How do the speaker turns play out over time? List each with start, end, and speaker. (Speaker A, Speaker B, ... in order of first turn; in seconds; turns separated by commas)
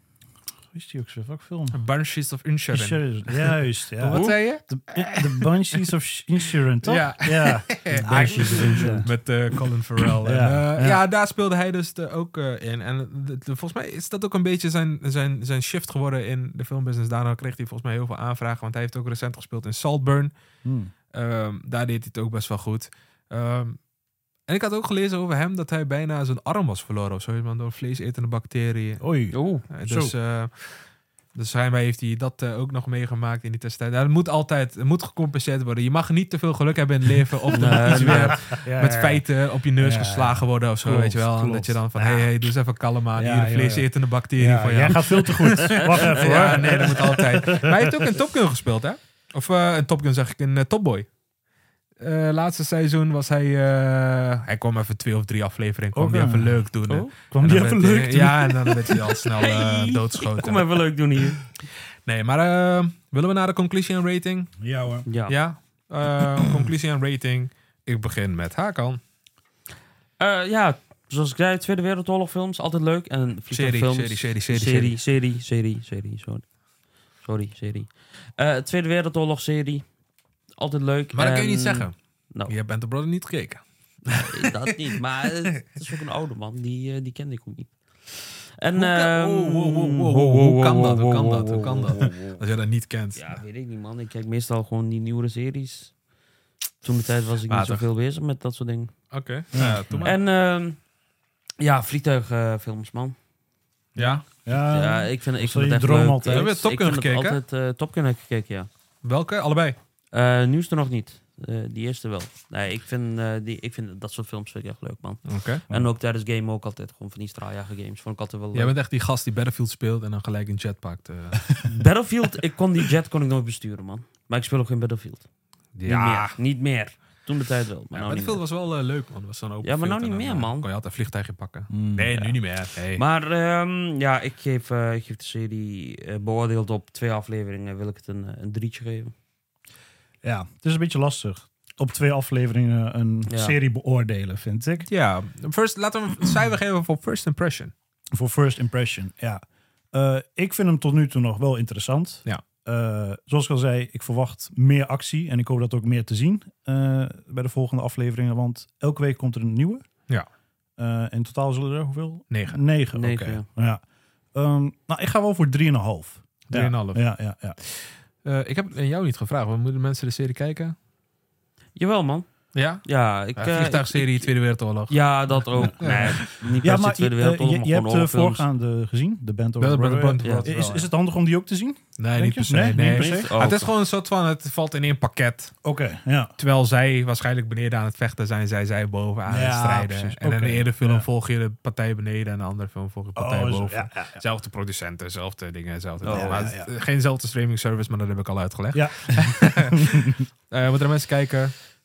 Speaker A: 0.7-1.8, Speaker B: 1.7-5.5, Speaker A: 2.7-9.1, Speaker C: 4.1-4.4, Speaker B: 6.8-20.3, Speaker C: 8.0-9.1, Speaker A: 10.2-11.0, Speaker A: 20.6-20.9, Speaker B: 21.1-23.8, Speaker B: 24.5-29.0, Speaker A: 29.0-30.1, Speaker C: 29.3-29.7, Speaker B: 29.7-51.1, Speaker C: 37.5-38.4, Speaker A: 37.8-39.3, Speaker A: 39.8-42.5, Speaker A: 43.2-48.2, Speaker B: 52.0-60.8, Speaker A: 55.9-56.7, Speaker C: 56.9-57.1, Speaker A: 57.2-59.1, Speaker C: 59.2-61.5, Speaker B: 62.1-64.5, Speaker A: 64.6-65.1, Speaker C: 65.1-65.3, Speaker B: 65.3-69.0, Speaker C: 70.2-76.5, Speaker B: 73.5-75.0, Speaker C: 77.2-79.9, Speaker C: 80.6-82.5, Speaker B: 81.1-81.9, Speaker B: 82.5-84.2, Speaker C: 84.1-92.4, Speaker B: 88.8-93.4, Speaker C: 93.2-95.9, Speaker C: 96.8-98.9, Speaker B: 97.5-97.8, Speaker B: 99.1-100.2, Speaker A: 99.5-100.1, Speaker C: 100.0-100.8, Speaker C: 101.6-103.2, Speaker B: 104.0-104.2, Speaker A: 104.0-106.5, Speaker C: 104.5-108.7, Speaker B: 106.3-107.4, Speaker B: 109.0-109.8, Speaker C: 110.1-118.8, Speaker B: 115.2-115.6, Speaker B: 118.5-121.7, Speaker C: 121.7-125.3, Speaker B: 125.8-126.4, Speaker C: 125.8-128.4, Speaker B: 127.9-133.0, Speaker C: 129.6-130.7, Speaker A: 131.7-132.3, Speaker C: 132.9-139.1, Speaker A: 140.2-144.9, Speaker C: 143.3-143.6, Speaker B: 144.9-147.7, Speaker A: 148.1-149.4, Speaker A: 149.9-159.8, Speaker A: 160.8-163.8, Speaker B: 162.3-162.6, Speaker C: 162.9-163.5, Speaker A: 164.3-167.6, Speaker B: 166.5-167.1, Speaker B: 167.6-170.8, Speaker C: 171.8-172.3, Speaker B: 172.6-175.0, Speaker C: 172.8-174.3, Speaker C: 174.9-178.5, Speaker B: 175.5-176.3, Speaker A: 175.6-183.3, Speaker B: 179.6-180.9, Speaker C: 180.2-180.5, Speaker B: 182.0-185.6, Speaker C: 182.8-183.7, Speaker A: 185.7-186.3, Speaker B: 186.4-201.5, Speaker A: 189.3-191.1, Speaker A: 193.2-194.2, Speaker C: 196.0-196.5, Speaker A: 196.1-196.7, Speaker A: 198.7-200.2